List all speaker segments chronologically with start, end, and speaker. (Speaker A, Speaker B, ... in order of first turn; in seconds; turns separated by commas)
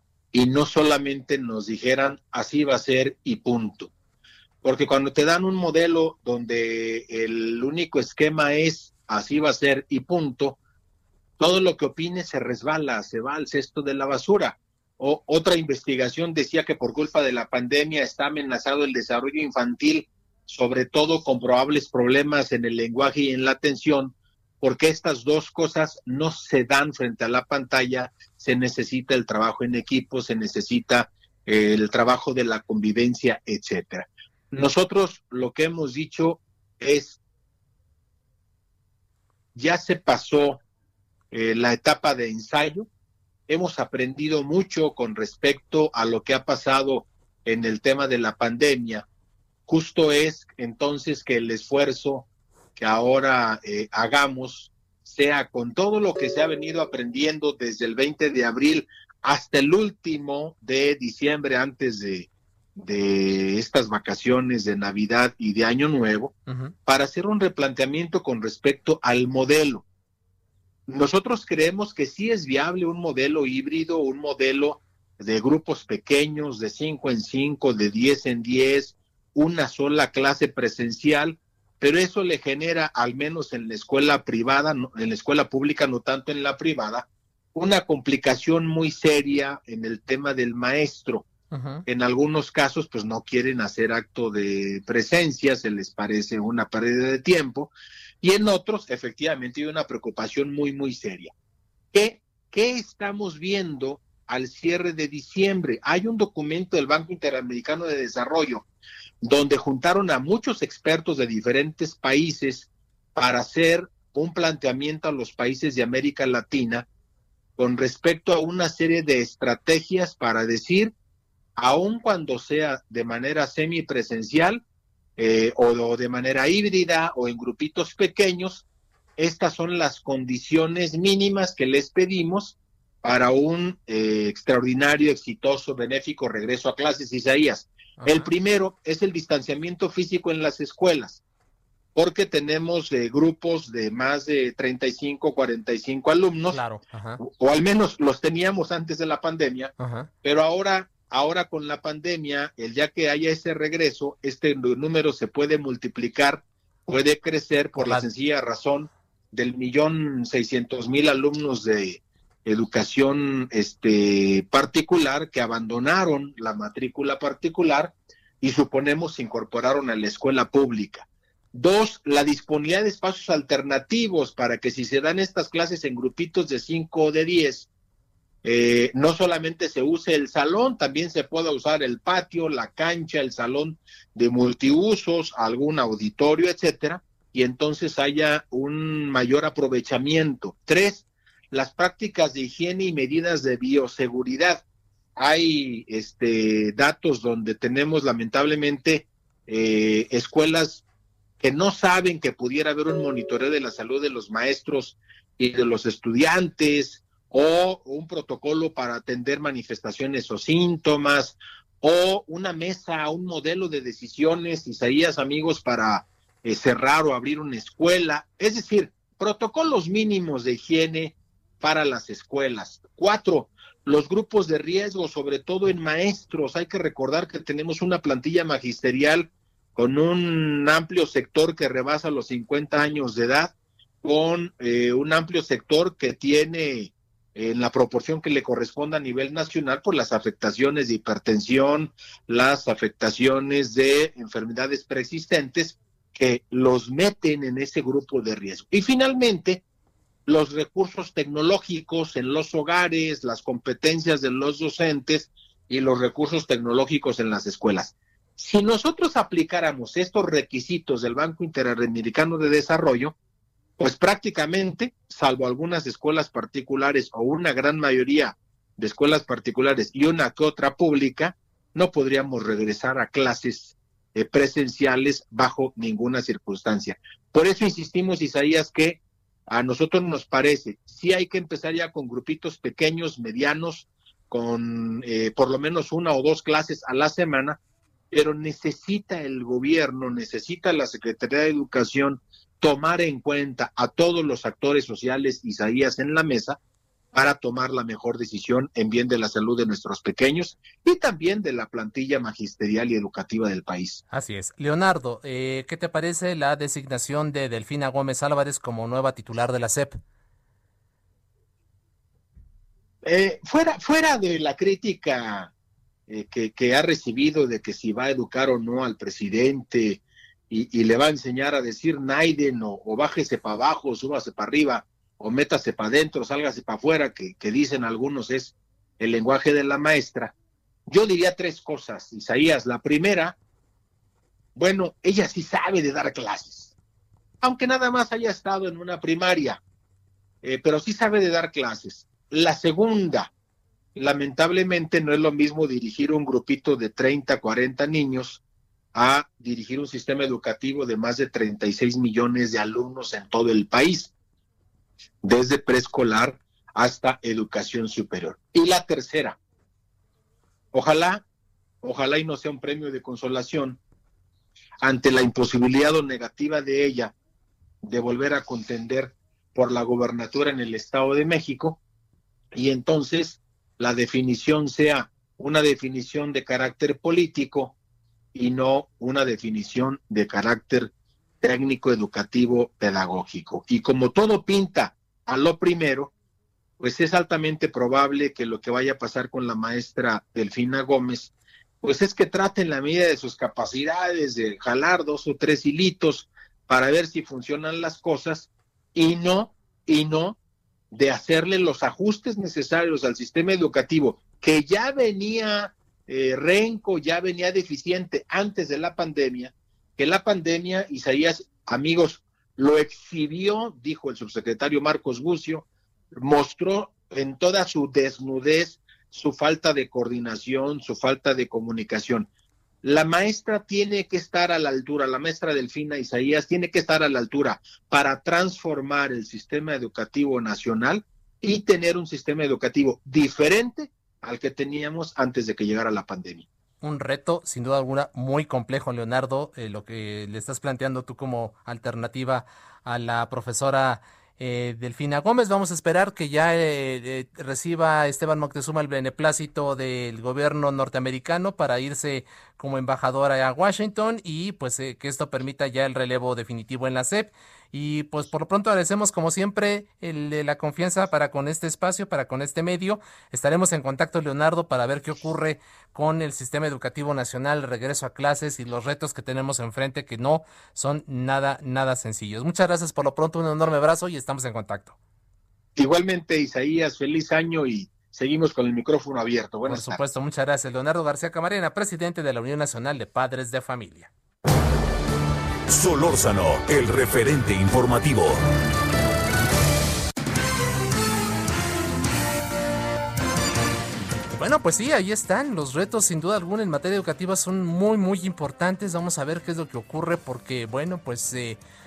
Speaker A: 0.3-3.9, Speaker A: 4.6-10.6, Speaker A: 11.4-37.2, Speaker A: 39.5-40.6, Speaker A: 41.3-42.9, Speaker A: 43.5-49.0, Speaker A: 49.7-69.8, Speaker B: 66.5-66.7, Speaker A: 70.9-91.3, Speaker B: 91.5-91.8, Speaker A: 91.8-101.3, Speaker A: 101.9-108.7, Speaker A: 109.2-116.9, Speaker A: 117.6-120.9, Speaker A: 121.6-124.6, Speaker A: 125.2-128.6, Speaker A: 129.2-141.2, Speaker B: 138.0-138.3, Speaker A: 141.9-146.6, Speaker B: 146.5-147.2, Speaker A: 147.2-177.7, Speaker B: 149.8-150.1, Speaker B: 157.7-158.1, Speaker A: 178.4-194.6, Speaker A: 195.2-200.8, Speaker A: 201.4-249.6, Speaker A: 250.2-263.1, Speaker A: 263.8-287.6, Speaker A: 288.1-296.6, Speaker A: 297.1-304.0, Speaker B: 304.1-310.0, Speaker A: 313.0-315.5, Speaker A: 316.1-330.3, Speaker A: 330.9-333.4, Speaker A: 334.6-336.7, Speaker A: 337.4-339.6, Speaker A: 340.4-343.3, Speaker A: 343.9-348.4, Speaker A: 348.9-354.1, Speaker A: 355.2-359.4, Speaker A: 360.7-361.2, Speaker A: 361.8-363.8, Speaker A: 364.8-367.1, Speaker A: 367.8-371.8, Speaker A: 372.5-377.7, Speaker A: 378.3-386.1, Speaker A: 386.8-400.4, Speaker A: 400.9-422.3, Speaker A: 422.8-436.4, Speaker B: 436.8-474.9, Speaker A: 475.8-480.0, Speaker B: 479.7-484.1, Speaker C: 485.7-488.4, Speaker B: 494.3-501.6